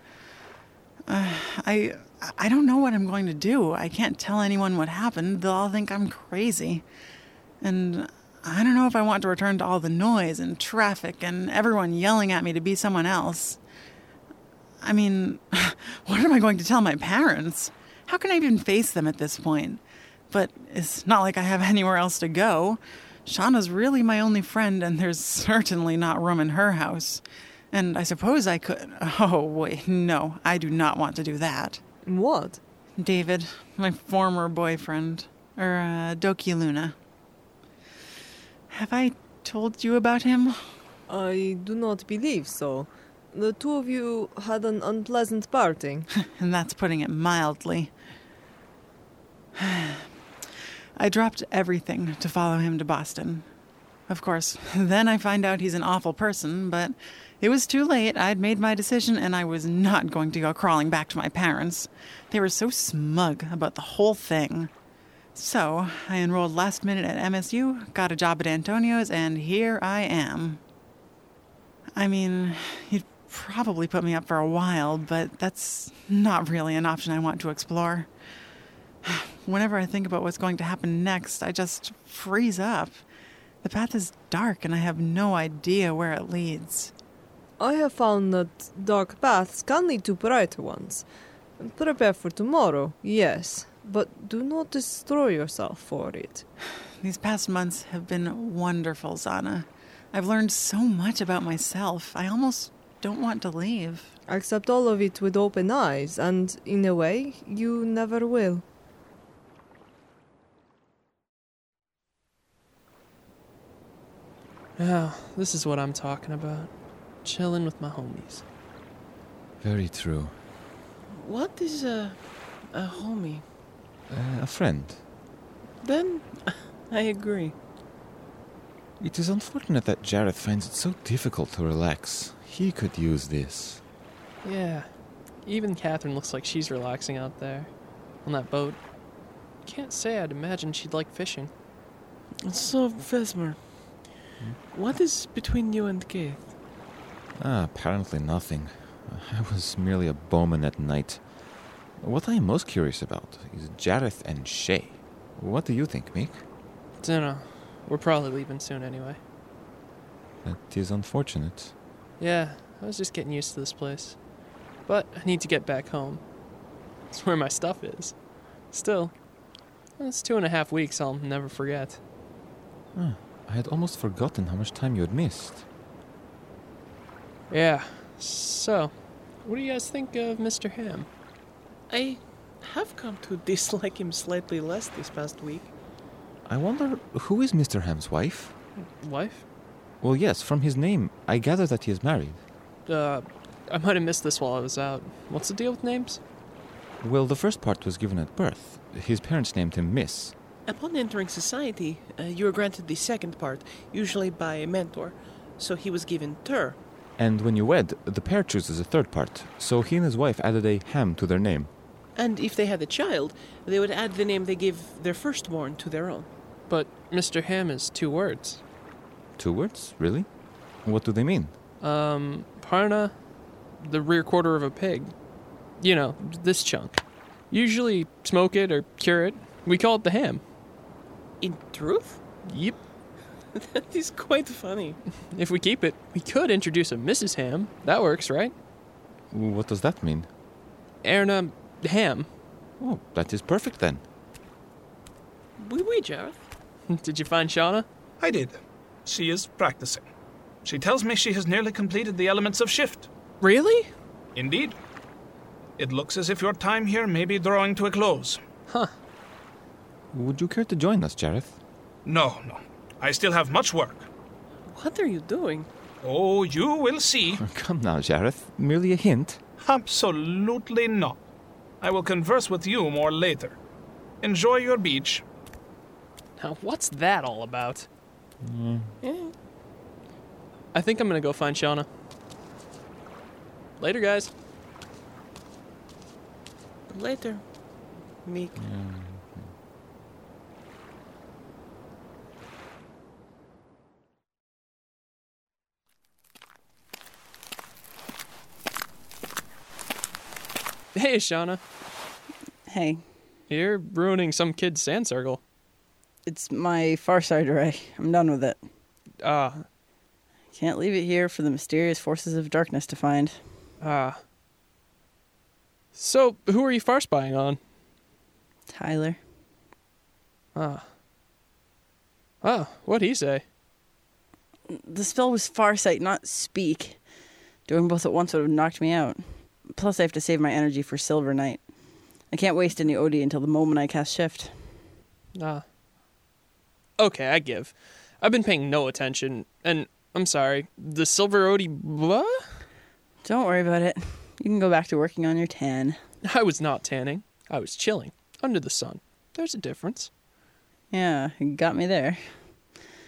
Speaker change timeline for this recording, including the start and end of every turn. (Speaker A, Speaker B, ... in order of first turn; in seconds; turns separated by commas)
Speaker A: 1.1-6.8, Speaker A: 7.6-13.6, Speaker A: 14.8-31.8, Speaker B: 32.1-32.6, Speaker A: 33.0-37.0, Speaker A: 38.7-40.6, Speaker B: 41.1-46.1, Speaker A: 46.4-47.9, Speaker A: 49.6-50.1, Speaker A: 51.0-53.5, Speaker A: 54.1-64.7, Speaker A: 65.3-70.6, Speaker A: 72.0-78.1, Speaker A: 79.0-83.0, Speaker A: 83.6-86.9, Speaker B: 87.6-91.0, Speaker B: 91.6-96.4, Speaker A: 97.0-104.1, Speaker B: 104.3-108.6, Speaker C: 114.8-116.7, Speaker C: 117.2-118.4, Speaker D: 119.6-120.3, Speaker E: 121.1-123.5, Speaker D: 124.1-125.0, Speaker E: 125.8-127.5, Speaker D: 129.0-133.8, Speaker C: 134.4-134.9, Speaker C: 135.4-137.7, Speaker C: 138.2-138.8, Speaker C: 139.7-141.5, Speaker E: 142.4-143.6, Speaker E: 144.7-146.5, Speaker D: 147.4-151.3, Speaker D: 152.0-156.4, Speaker C: 157.0-159.2, Speaker D: 160.4-161.7, Speaker C: 162.2-164.2, Speaker C: 164.9-166.2, Speaker C: 167.1-168.2, Speaker C: 168.7-169.1, Speaker C: 170.0-172.0, Speaker D: 172.9-175.6, Speaker C: 177.5-178.9, Speaker C: 179.4-181.1, Speaker E: 181.9-185.7, Speaker D: 186.5-188.5, Speaker C: 188.8-189.4, Speaker D: 190.0-192.4, Speaker C: 192.9-196.2, Speaker D: 197.0-200.3, Speaker E: 200.7-206.8, Speaker D: 207.2-211.7, Speaker E: 212.2-216.3, Speaker C: 216.7-218.6, Speaker D: 219.4-220.3, Speaker D: 220.8-221.5, Speaker C: 221.8-223.1, Speaker C: 223.8-225.1, Speaker C: 225.8-230.4, Speaker E: 231.4-232.2, Speaker C: 232.5-232.8, Speaker E: 233.5-235.0, Speaker C: 235.3-238.5, Speaker D: 239.3-240.3, Speaker C: 241.0-242.3, Speaker D: 242.8-244.0, Speaker E: 245.6-246.4, Speaker C: 246.9-247.9, Speaker F: 248.2-250.1, Speaker F: 250.6-253.1, Speaker C: 253.4-253.9, Speaker F: 254.3-254.8, Speaker F: 255.8-258.4, Speaker D: 260.1-261.6, Speaker F: 262.1-264.1, Speaker E: 264.7-265.7, Speaker F: 266.0-267.4, Speaker D: 267.4-269.4, Speaker F: 269.6-271.2, Speaker F: 271.8-273.6, Speaker F: 274.2-275.2, Speaker C: 276.4-277.9, Speaker D: 278.4-278.9, Speaker E: 279.0-279.3, Speaker C: 280.7-281.9, Speaker C: 283.8-284.3, Speaker E: 286.9-287.4, Speaker E: 288.2-288.6, Speaker D: 288.6-289.5, Speaker C: 300.9-301.6, Speaker G: 302.7-303.0, Speaker C: 303.5-305.4, Speaker G: 306.3-308.6, Speaker C: 309.2-309.6, Speaker G: 310.5-313.4, Speaker C: 313.8-314.2, Speaker C: 315.9-317.6, Speaker G: 318.7-319.2, Speaker C: 320.6-320.9, Speaker C: 322.4-323.4, Speaker G: 324.7-327.0, Speaker G: 327.7-331.6, Speaker G: 332.3-334.5, Speaker C: 335.4-335.6, Speaker C: 337.0-342.4, Speaker G: 343.2-346.0, Speaker C: 346.2-350.1, Speaker G: 350.9-352.2